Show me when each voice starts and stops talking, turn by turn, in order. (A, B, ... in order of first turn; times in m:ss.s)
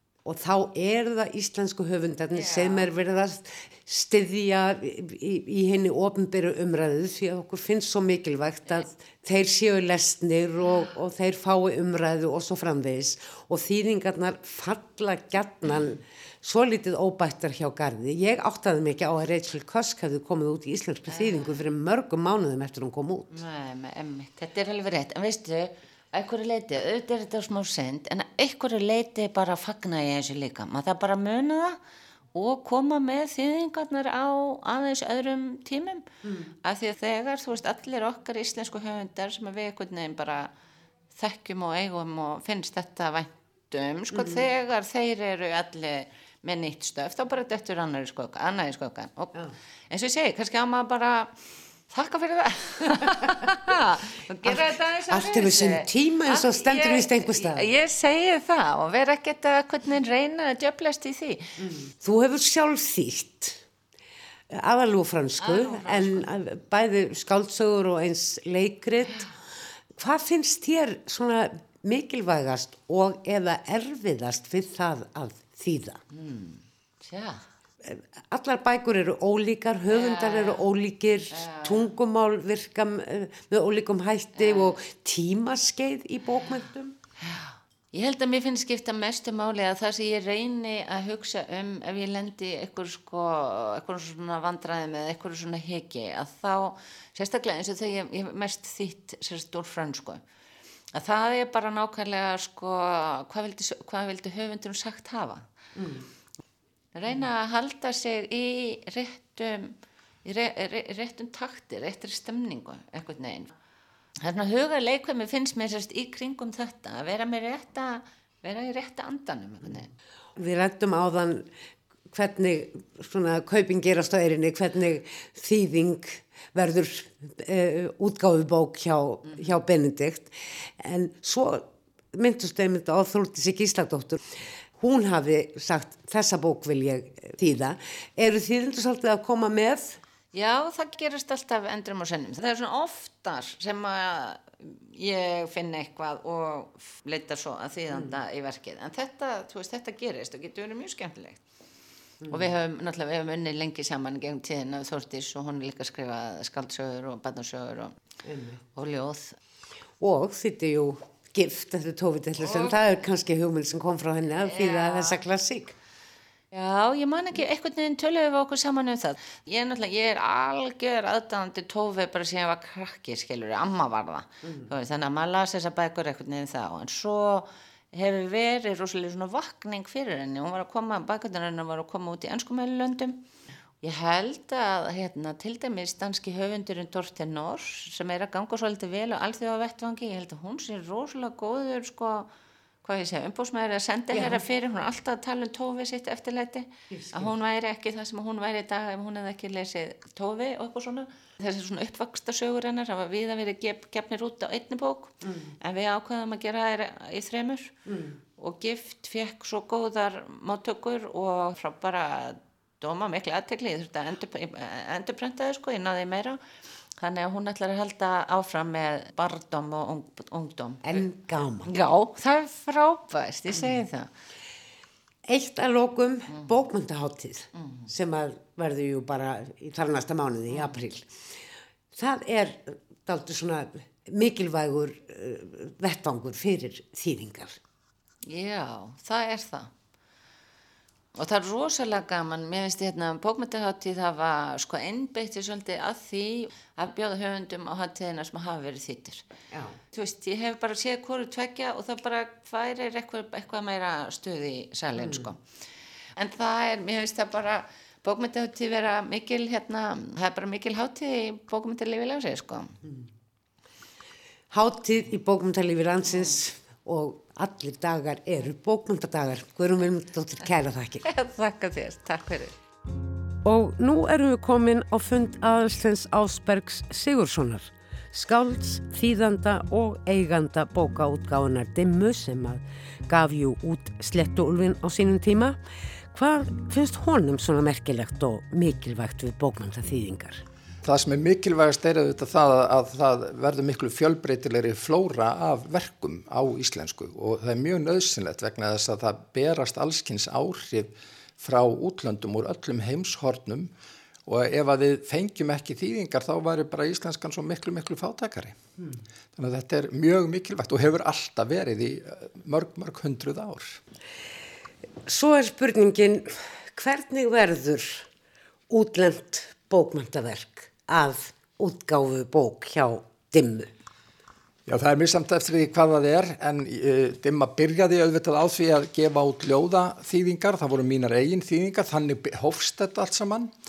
0:00.2-0:23.4 A
0:02.3-0:02.9 B
0:21.1-0:21.6 B
0:23.3-0:31.8 B
0:32.3-0:36.1 B
0:36.2-0:36.5 A
0:36.6-0:40.5 B
0:41.1-0:49.4 B
0:44.1-0:44.4 A
0:49.9-0:51.4 B
0:51.9-1:01.5 B
0:53.0-0:53.5 A
0:54.4-0:57.6 A
1:01.6-1:03.6 A
1:04.5-1:09.3 A
1:05.4-1:06.2 B
1:09.9-1:16.0 A
1:16.1-1:17.4 B
1:17.8-1:27.0 A
1:19.9-1:20.6 B
1:21.3-1:21.9 B
1:24.4-1:24.8 B
1:27.2-1:40.2 B
1:40.9-1:45.4 B
1:45.7-1:46.1 A
1:46.9-1:53.5 B
1:54.2-1:59.9 B
2:00.4-2:01.5 A
2:02.1-2:14.2 A
2:14.8-2:20.0 A
2:20.3-2:31.4 B
2:32.2-2:32.5 A
2:32.3-2:37.9 B
2:38.2-2:38.6 A
2:38.7-2:39.4 B
2:40.0-2:45.7 A
2:42.4-2:42.8 B
2:44.4-2:45.2 B
2:46.5-3:03.2 B
3:03.8-3:12.3 B
3:12.8-3:27.7 B
3:14.1-3:14.4 A
3:16.9-3:17.3 A
3:25.2-3:25.5 A
3:27.8-3:28.2 A
3:28.4-3:36.4 B
3:37.0-3:41.0 B
3:40.8-3:41.7 A
3:41.6-3:44.1 B
3:45.3-3:51.1 A
3:50.5-3:50.8 B
3:51.9-3:57.6 A
3:58.2-3:59.7 B
4:01.2-4:09.2 B
4:09.5-4:09.8 A
4:09.9-4:15.4 B
4:15.0-4:15.3 A
4:16.2-4:22.8 B
4:24.5-4:31.1 A
4:31.0-4:32.5 B
4:33.4-4:45.6 A
4:46.1-4:50.4 A
4:50.8-5:03.7 C
5:04.2-5:08.6 C
5:09.4-5:13.8 C
5:15.0-5:18.1 A
5:18.7-5:23.7 A
5:24.7-5:33.5 C